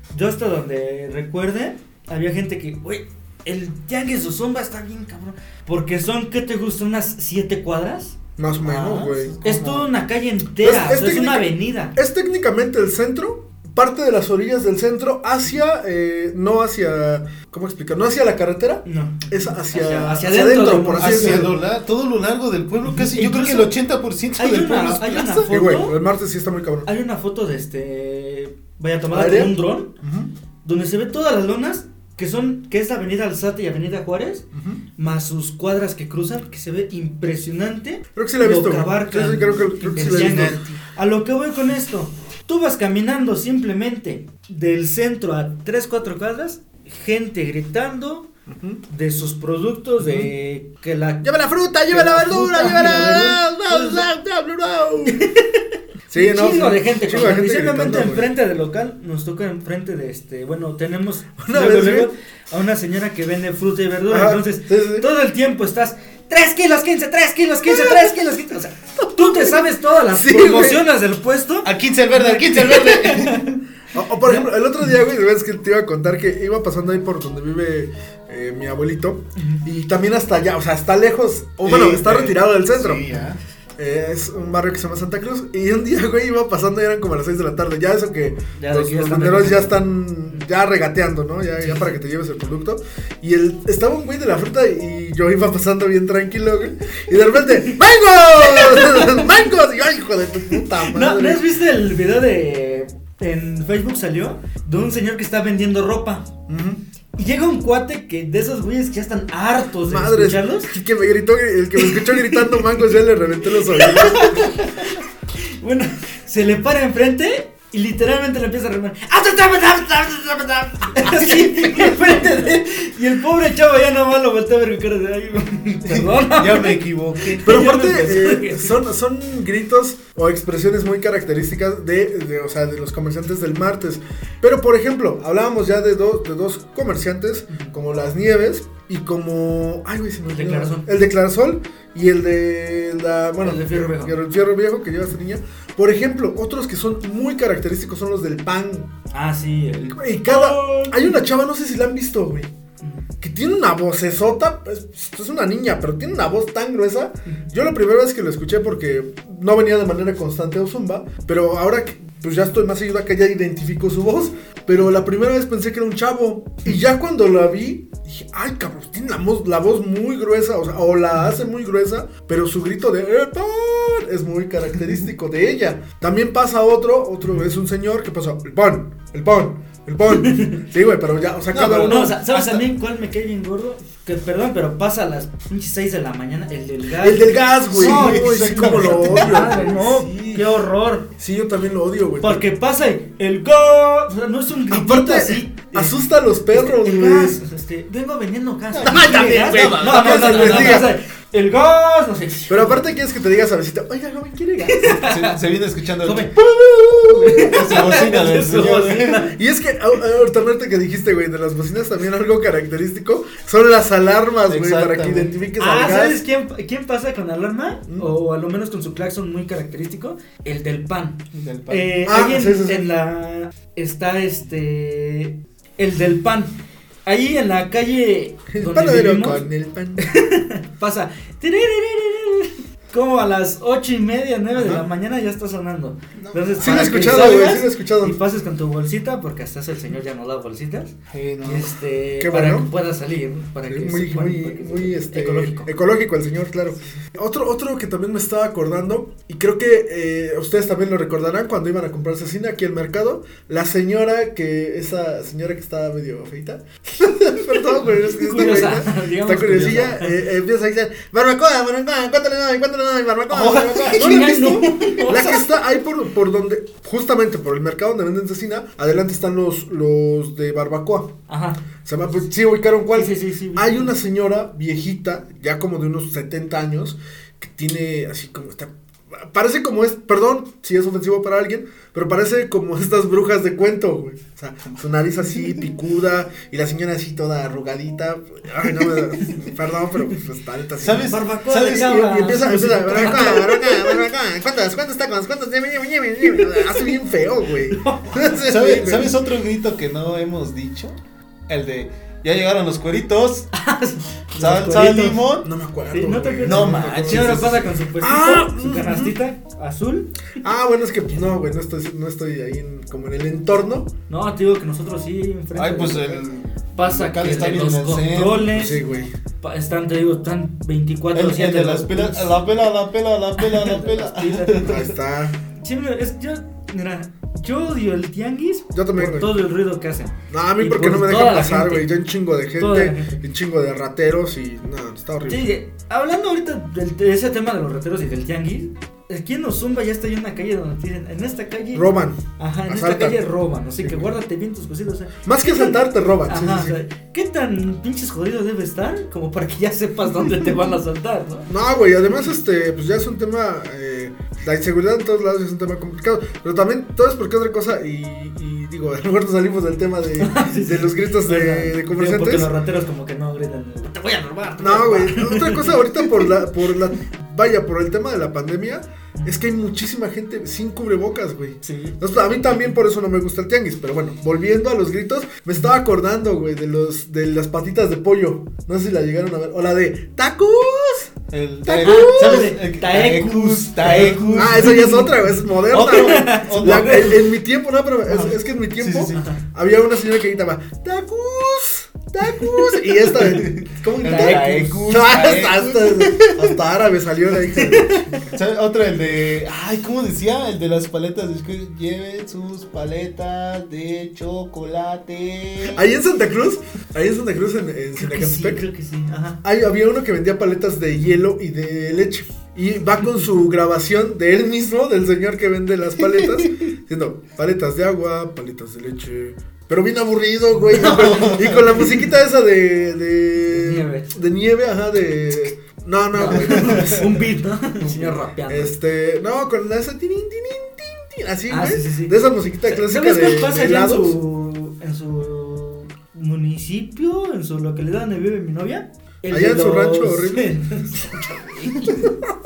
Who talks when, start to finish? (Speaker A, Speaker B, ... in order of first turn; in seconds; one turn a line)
Speaker A: 0.1-8.2
Speaker B: 8.4-9.3
Speaker C: 8.6-9.9
Speaker A: 9.4-12.0
Speaker B: 10.6-21.5
Speaker A: 18.9-21.5
Speaker C: 21.0-25.5
Speaker A: 22.8-23.7
Speaker A: 24.4-26.0
Speaker B: 25.5-26.9
Speaker A: 26.9-29.9
Speaker B: 29.1-30.3
Speaker A: 30.6-34.5
Speaker B: 34.5-34.8
Speaker A: 35.0-48.3
Speaker B: 38.1-40.6
Speaker C: 39.9-40.8
Speaker B: 48.5-48.8
Speaker A: 48.9-51.3
Speaker B: 50.0-50.3
Speaker B: 51.2-55.2
Speaker A: 51.8-54.1
Speaker A: 55.1-73.6
Speaker B: 56.1-58.3
Speaker B: 61.4-62.1
Speaker B: 64.1-65.1
Speaker B: 67.7-68.0
Speaker B: 69.2-69.6
Speaker B: 70.1-70.8
Speaker C: 71.6-73.5
Speaker B: 73.9-83.0
Speaker A: 79.4-79.6
Speaker C: 81.6-83.4
Speaker B: 83.8-101.5
Speaker A: 88.6-90.5
Speaker A: 91.6-91.9
Speaker A: 98.4-99.4
Speaker A: 100.6-106.3
Speaker B: 106.5-106.8
Speaker A: 107.2-110.7
Speaker B: 109.8-114.5
Speaker A: 111.8-113.0
Speaker A: 113.5-115.0
Speaker A: 115.6-128.8
Speaker C: 125.8-127.5
Speaker B: 127.4-148.9
Speaker A: 140.3-140.9
Speaker A: 143.4-144.2
Speaker A: 149.1-151.2
Speaker B: 149.8-152.5
Speaker B: 153.2-182.1
Speaker A: 180.1-180.6
Speaker C: 181.5-182.7
Speaker A: 181.8-191.1
Speaker B: 187.0-189.8
Speaker C: 187.7-190.4
Speaker B: 191.2-192.4
Speaker A: 192.2-202.9
Speaker B: 194.7-197.4
Speaker C: 198.7-200.9
Speaker B: 198.8-200.9
Speaker B: 202.5-205.1
Speaker A: 204.7-205.4
Speaker C: 205.1-209.3
Speaker A: 206.0-206.3
Speaker A: 207.1-209.4
Speaker B: 209.3-216.2
Speaker C: 214.5-215.3
Speaker A: 215.6-226.6
Speaker C: 221.3-222.0
Speaker B: 222.1-222.9
Speaker A: 227.1-229.5
Speaker B: 228.5-230.0
Speaker A: 230.0-245.7
Speaker B: 234.6-234.8
Speaker C: 236.2-237.5
Speaker B: 236.6-238.2
Speaker C: 241.1-241.8
Speaker B: 242.2-242.7
Speaker B: 243.7-271.1
Speaker A: 258.0-260.2
Speaker A: 263.3-265.6
Speaker A: 271.3-271.6
Speaker B: 271.8-299.1
Speaker A: 272.9-273.9
Speaker C: 290.8-291.9
Speaker A: 290.9-294.0
Speaker C: 292.9-293.3
Speaker A: 296.4-296.9
Speaker A: 297.7-298.4
Speaker C: 298.4-301.0
Speaker C: 301.5-303.5
Speaker A: 303.5-305.2
Speaker C: 304.4-305.5
Speaker B: 305.4-309.1
Speaker A: 305.9-310.3
Speaker C: 306.4-307.7
Speaker B: 310.4-313.9
Speaker A: 314.1-318.8
Speaker C: 315.6-318.5
Speaker B: 318.5-319.1
Speaker A: 319.4-322.4
Speaker C: 321.1-324.9
Speaker A: 323.4-324.9
Speaker B: 324.6-325.4
Speaker A: 325.6-331.9
Speaker B: 328.7-329.4
Speaker B: 330.3-335.6
Speaker A: 332.6-333.2
Speaker A: 335.3-351.5
Speaker B: 341.7-343.3
Speaker B: 343.8-344.1
Speaker B: 345.2-346.8
Speaker B: 351.5-362.5
Speaker A: 360.2-366.3
Speaker B: 364.6-381.1
Speaker A: 371.6-372.0
Speaker C: 381.3-384.9
Speaker B: 381.7-382.5
Speaker A: 381.8-387.3
Speaker B: 384.4-398.2
Speaker C: 385.7-387.1
Speaker A: 388.1-388.4
Speaker C: 388.8-389.2
Speaker A: 389.1-389.4
Speaker C: 393.2-396.6
Speaker A: 394.0-394.8
Speaker A: 397.6-398.3
Speaker C: 398.3-405.8
Speaker B: 405.7-408.6
Speaker A: 408.0-409.4
Speaker B: 409.4-427.2
Speaker C: 416.2-416.6
Speaker A: 420.7-422.0
Speaker C: 420.7-421.6
Speaker A: 423.5-424.2
Speaker A: 426.1-428.8
Speaker C: 427.8-428.2
Speaker B: 428.5-434.2
Speaker A: 431.5-442.1
Speaker B: 439.3-440.5
Speaker B: 441.8-442.1